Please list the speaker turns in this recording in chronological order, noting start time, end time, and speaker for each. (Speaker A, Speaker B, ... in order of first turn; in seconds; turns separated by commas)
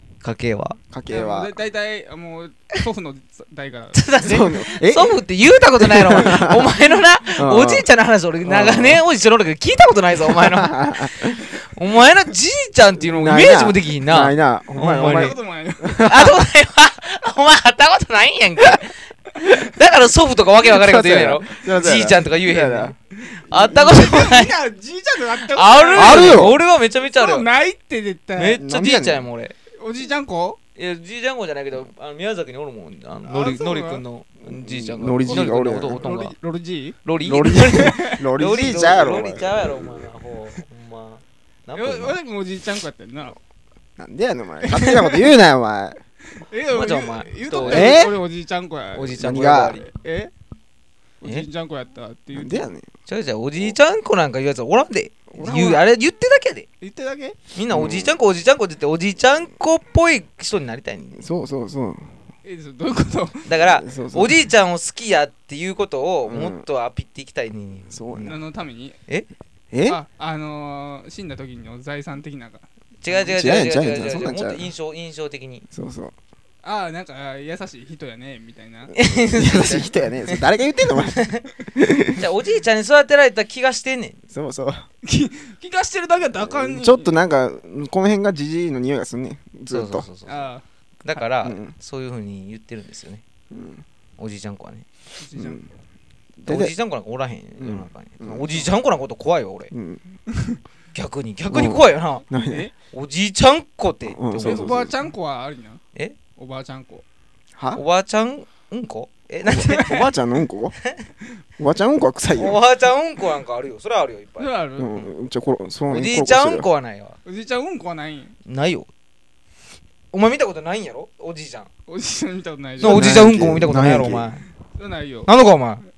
Speaker A: 0.2-0.8, Speaker B: 0.9-1.5, Speaker C: 1.1-4.1, Speaker A: 3.9-15.3, Speaker B: 4.2-6.7, Speaker B: 7.3-7.9, Speaker B: 8.4-9.0, Speaker B: 10.3-11.4, Speaker B: 12.9-16.4, Speaker C: 14.9-16.1, Speaker A: 16.0-24.5, Speaker B: 20.6-22.9, Speaker C: 23.3-28.6, Speaker B: 23.6-23.8, Speaker A: 25.3-27.5, Speaker B: 25.9-26.6, Speaker A: 28.3-29.5, Speaker B: 28.6-29.3, Speaker C: 29.8-30.6, Speaker A: 30.8-36.3, Speaker C: 33.2-34.0, Speaker B: 34.4-36.0, Speaker C: 35.2-38.3, Speaker A: 37.0-42.2, Speaker B: 37.2-39.7, Speaker C: 41.7-43.4, Speaker B: 44.0-46.0, Speaker C: 44.7-45.4, Speaker C: 46.4-50.3, Speaker A: 46.7-48.0, Speaker B: 47.5-48.2, Speaker A: 48.9-49.8, Speaker B: 49.1-49.8, Speaker C: 51.2-52.7, Speaker B: 52.3-52.9, Speaker A: 53.1-56.6, Speaker B: 55.3-55.9, Speaker C: 56.8-57.4, Speaker A: 57.5-61.2, Speaker B: 57.7-58.1, Speaker B: 61.1-62.2, Speaker C: 62.4-63.5, Speaker A: 63.4-68.0, Speaker B: 63.6-64.4, Speaker B: 66.2-66.7, Speaker B: 67.9-68.4, Speaker C: 68.2-69.0, Speaker B: 69.7-70.0, Speaker C: 69.8-72.7, Speaker A: 73.0-75.7, Speaker B: 73.1-74.7, Speaker B: 75.7-76.1, Speaker C: 76.6-78.9, Speaker A: 78.9-80.4, Speaker B: 79.0-82.2, Speaker A: 81.2-81.4, Speaker A: 82.1-84.2, Speaker B: 84.3-84.8, Speaker C: 85.0-87.2, Speaker B: 86.4-90.1, Speaker A: 89.7-90.5, Speaker C: 90.2-90.6, Speaker A: 91.0-93.2, Speaker B: 91.4-91.7, Speaker B: 93.5-93.8, Speaker A: 94.2-94.8, Speaker C: 95.2-95.7, Speaker B: 95.3-95.7, Speaker B: 96.4-96.7, Speaker A: 96.5-99.7, Speaker B: 97.6-98.7, Speaker B: 99.7-100.0, Speaker C: 100.3-100.6, Speaker A: 100.9-102.2, Speaker B: 101.5-102.7, Speaker C: 102.3-102.7, Speaker A: 102.9-104.8, Speaker B: 104.0-105.0, Speaker C: 104.4-105.8, Speaker C: 106.4-107.0, Speaker B: 107.6-107.8, Speaker A: 107.7-110.0, Speaker B: 109.4-110.8, Speaker C: 109.7-110.1, Speaker B: 111.6-112.6, Speaker A: 112.3-115.1, Speaker C: 114.4-114.9, Speaker B: 114.8-116.7, Speaker A: 115.9-117.2, Speaker C: 117.2-118.3, Speaker A: 118.5-118.9, Speaker A: 120.1-121.7, Speaker C: 121.9-123.1, Speaker B: 122.8-124.3, Speaker A: 122.8-124.4, Speaker C: 124.8-125.3, Speaker A: 125.2-125.8